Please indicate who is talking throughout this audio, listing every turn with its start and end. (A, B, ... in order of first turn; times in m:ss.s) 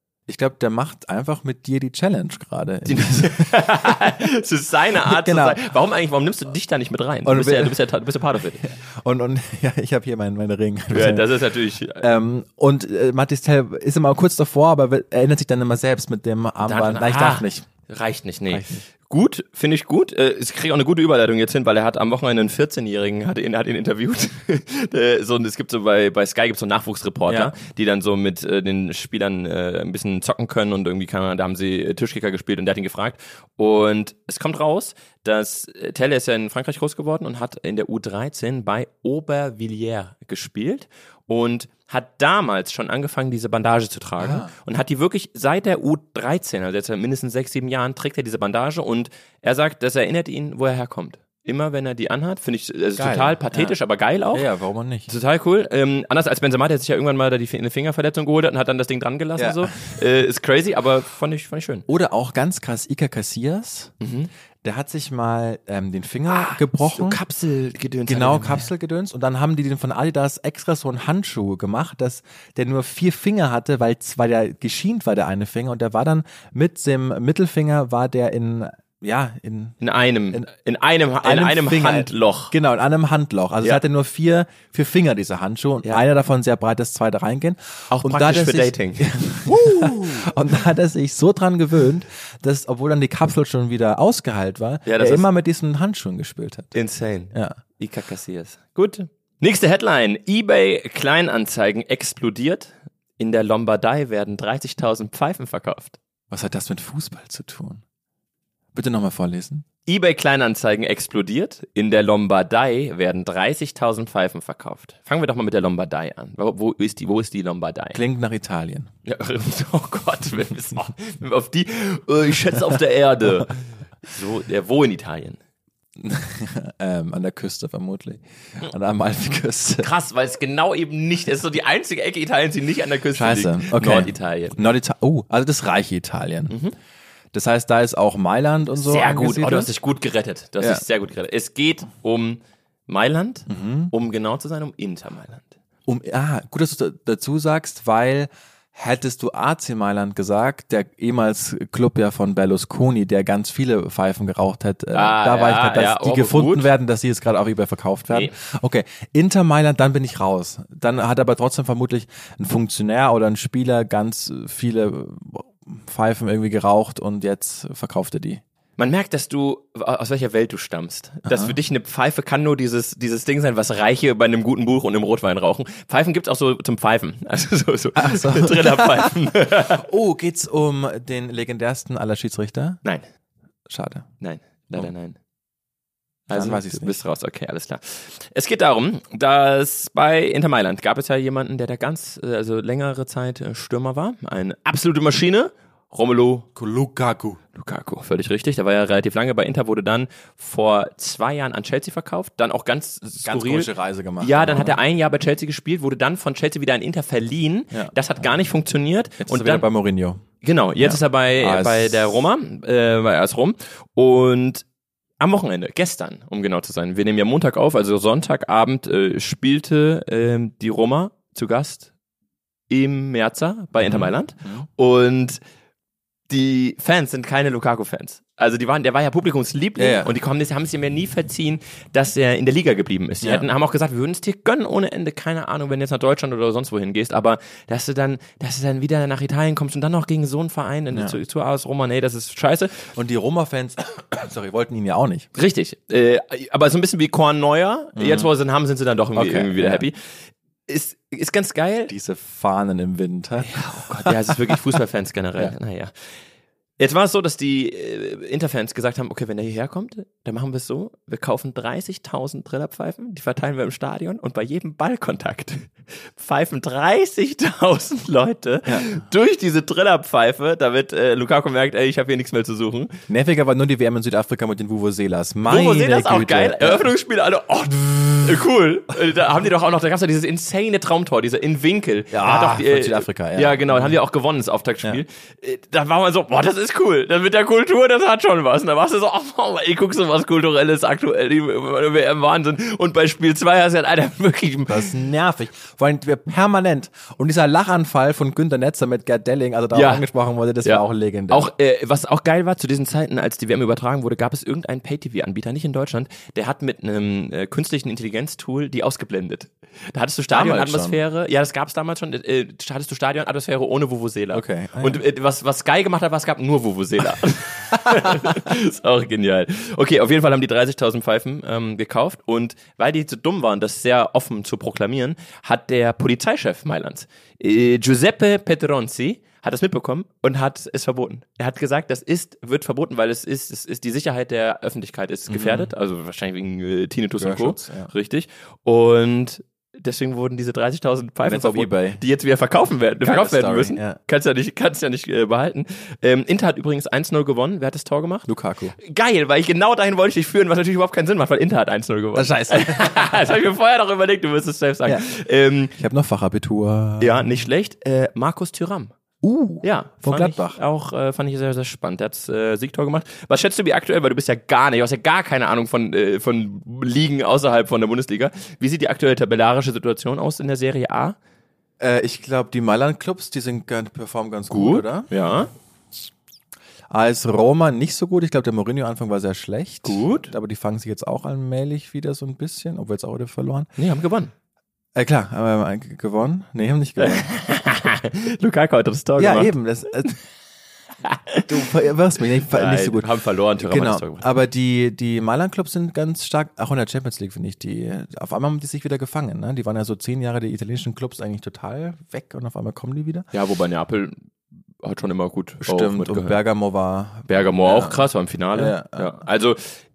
0:00.3-0:04.0 A
0:02.9-0:08.6 B
0:05.0-0:05.6 A
0:07.2-0:07.8 A
0:08.6-0:11.3 A
0:10.9-0:12.0 B
0:12.0-0:17.7 A
0:16.6-0:54.4 B
0:18.5-0:18.8 A
0:27.3-0:27.5 A
0:44.2-0:44.5 A
0:53.0-0:53.8 A
0:54.3-0:55.1 A
0:55.1-1:01.9 B
0:59.4-0:59.9 A
1:01.9-1:03.9 A
1:04.0-1:04.3 B
1:04.6-1:07.2 A
1:06.3-1:08.7 B
1:08.1-1:19.8 A
1:19.8-1:22.5 B
1:21.2-1:36.7 A
1:27.9-1:30.2 B
1:34.9-1:35.3 B
1:36.7-1:46.0 B
1:37.3-1:37.6 A
1:46.3-1:47.8 A
1:48.7-1:49.6 A
1:49.9-1:58.0 B
1:57.9-1:58.9 A
1:59.1-2:05.4 B
2:06.0-2:09.9 A
2:09.8-2:14.6 B
2:13.2-2:16.6 A
2:16.5-2:16.8 B
2:17.3-2:19.7 A
2:18.8-2:25.5 B
2:23.5-2:23.9 A
2:25.9-2:48.4 A
2:34.9-2:36.7 B
2:48.8-2:59.8 B
2:51.3-2:51.6 A
2:58.0-2:59.1 A
2:59.7-3:02.8 A
3:03.7-3:04.1 A
3:04.2-3:05.2 B
3:06.3-3:16.5 B
3:06.3-3:07.0 A
3:16.6-3:17.4 A
3:17.6-3:29.7 B
3:23.2-3:24.8 A
3:29.2-3:30.2 A
3:30.4-3:34.6 B
3:30.8-3:32.1 A
3:35.2-3:41.9 B
3:42.7-3:45.4 B
3:43.8-3:44.7 A
3:46.3-4:02.9 B
3:49.8-3:50.1 A
3:53.2-3:53.5 A
4:00.9-4:01.2 A
4:03.0-4:05.3 A
4:05.4-4:10.1 B
4:08.0-4:08.3 A
4:09.2-4:09.9 A
4:10.7-4:11.9 B
4:11.9-4:14.6 A
4:13.4-4:15.9 B
4:16.8-4:33.0 B
4:33.1-4:36.9 A
4:35.5-4:54.9 B
4:42.1-4:44.0 A
4:54.7-5:01.5 A
4:59.7-5:00.0 B
5:00.6-5:55.7 B
5:10.3-5:11.0 A
5:14.3-5:15.0 A
5:17.7-5:18.4 A
5:35.3-5:35.7 A
5:37.2-5:37.9 A
5:41.2-5:42.0 A
5:43.0-5:44.0 A
5:48.3-5:48.8 A
5:52.2-5:53.3 A
5:55.7-5:57.3 A
5:57.0-5:58.9 B
5:59.2-6:00.6 A
5:59.6-6:11.2 B
6:11.8-6:15.1 A
6:14.5-6:15.5 B
6:16.9-6:23.7 A
6:19.8-6:20.3 B
6:23.8-6:24.3 B
6:25.0-6:27.3 A
6:27.0-6:29.5 B
6:29.2-6:30.2 A
6:31.0-6:31.5 B
6:31.5-6:43.3 A
6:32.5-6:34.3 B
6:43.3-6:44.2 B
6:44.8-6:46.4 B
6:45.6-6:49.2 A
6:47.3-6:49.8 B